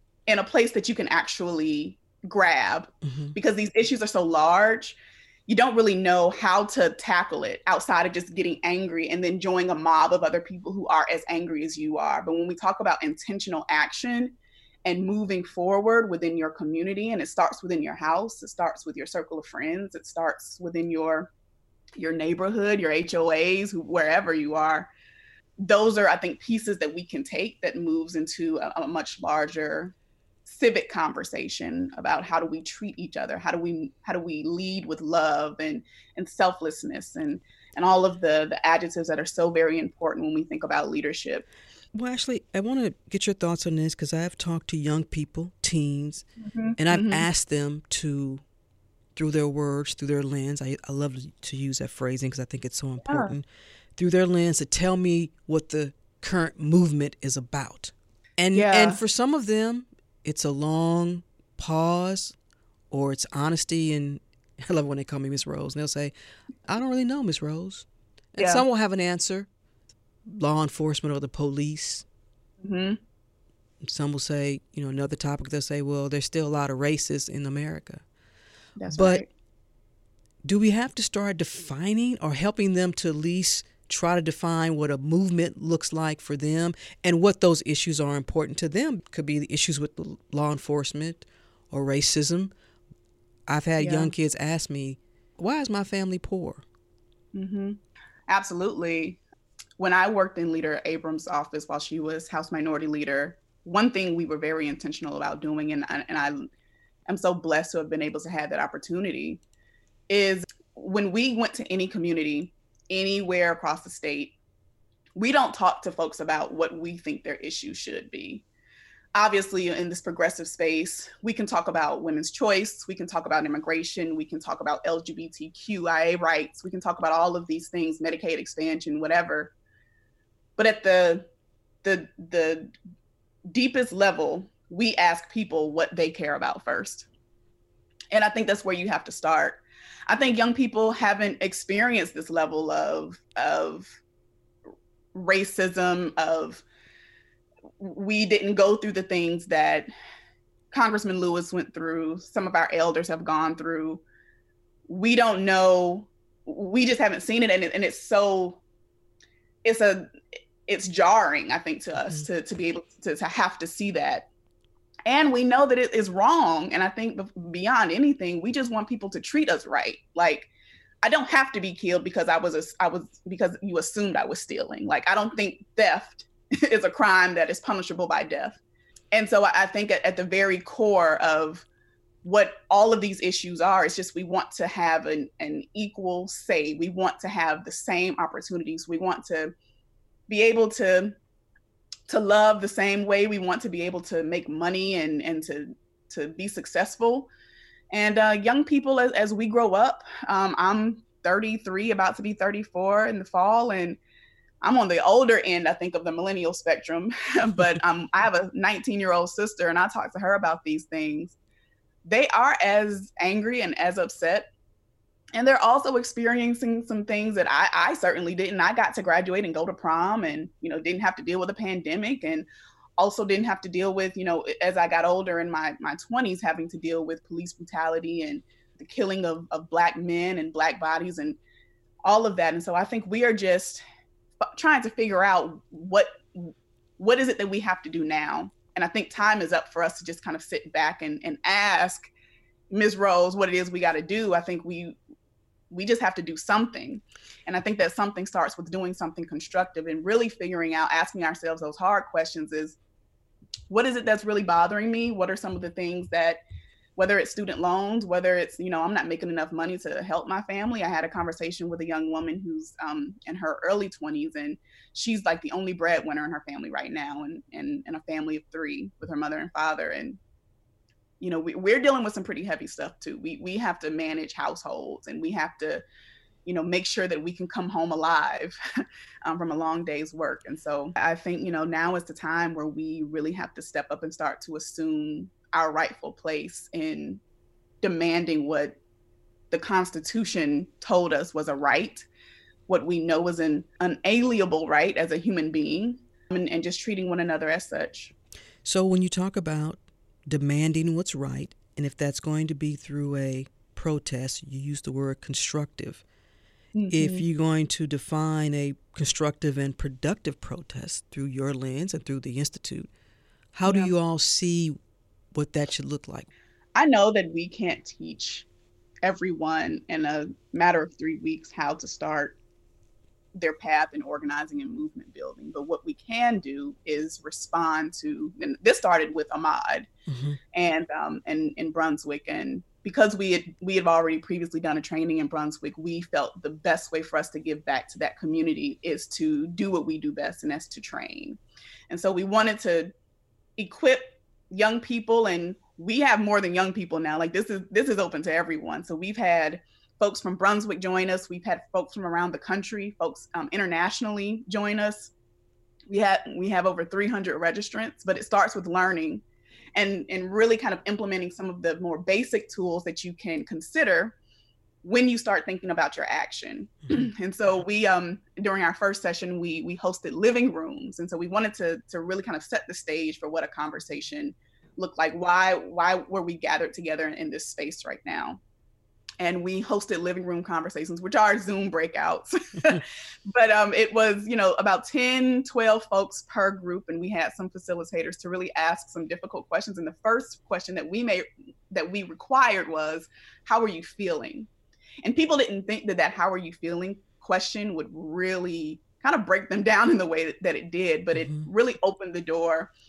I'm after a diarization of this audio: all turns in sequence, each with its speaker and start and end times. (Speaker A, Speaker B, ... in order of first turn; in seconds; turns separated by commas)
Speaker A: 0.3-21.3, Speaker B: 3.0-3.4, Speaker A: 22.0-24.9, Speaker A: 25.6-29.9, Speaker A: 30.5-41.5, Speaker B: 41.9-46.2, Speaker A: 46.4-47.3, Speaker B: 46.8-48.4, Speaker B: 49.2-53.5, Speaker A: 53.0-53.3, Speaker B: 54.0-62.3, Speaker A: 58.5-59.0, Speaker B: 62.9-66.1, Speaker B: 66.7-69.5, Speaker A: 68.4-68.7, Speaker B: 70.3-72.0, Speaker A: 72.6-73.0, Speaker B: 73.8-78.0, Speaker A: 78.8-79.3, Speaker B: 78.9-79.2, Speaker B: 80.4-92.5, Speaker B: 93.5-96.6, Speaker A: 93.8-94.1, Speaker A: 97.3-99.2, Speaker A: 99.8-106.5, Speaker A: 107.1-109.4, Speaker A: 110.1-114.4, Speaker A: 115.2-118.5, Speaker A: 119.2-129.5, Speaker A: 130.6-131.3, Speaker A: 131.8-132.7, Speaker A: 133.5-137.1, Speaker A: 138.1-143.9, Speaker A: 145.1-146.6, Speaker A: 147.8-149.9, Speaker A: 150.7-154.0, Speaker A: 154.9-158.6, Speaker A: 159.6-160.1, Speaker A: 160.7-164.3, Speaker A: 165.1-170.5, Speaker A: 171.0-178.6, Speaker A: 179.1-181.7, Speaker A: 182.2-189.5, Speaker A: 190.3-191.2, Speaker A: 192.1-197.3, Speaker A: 197.9-204.0, Speaker A: 204.6-211.3, Speaker A: 212.1-214.5, Speaker A: 215.3-231.4, Speaker A: 232.0-233.8, Speaker A: 234.4-242.1, Speaker A: 242.7-245.0, Speaker A: 245.7-252.8, Speaker A: 253.7-256.4, Speaker A: 257.0-270.2, Speaker A: 271.2-275.8, Speaker A: 276.5-278.6, Speaker A: 279.2-287.2, Speaker A: 287.8-288.8, Speaker A: 289.5-292.1, Speaker A: 292.7-298.1, Speaker B: 298.6-306.0, Speaker A: 306.8-307.3, Speaker B: 306.9-312.9, Speaker B: 313.5-314.8, Speaker A: 313.6-313.9, Speaker B: 315.3-316.3, Speaker A: 316.8-318.5, Speaker A: 319.0-322.4, Speaker A: 323.4-329.9, Speaker B: 330.1-330.4, Speaker A: 330.5-342.9, Speaker A: 343.6-355.1, Speaker A: 355.9-359.2, Speaker A: 359.8-364.1, Speaker A: 364.8-378.4, Speaker A: 379.2-394.5, Speaker A: 395.0-402.7, Speaker B: 401.1-401.5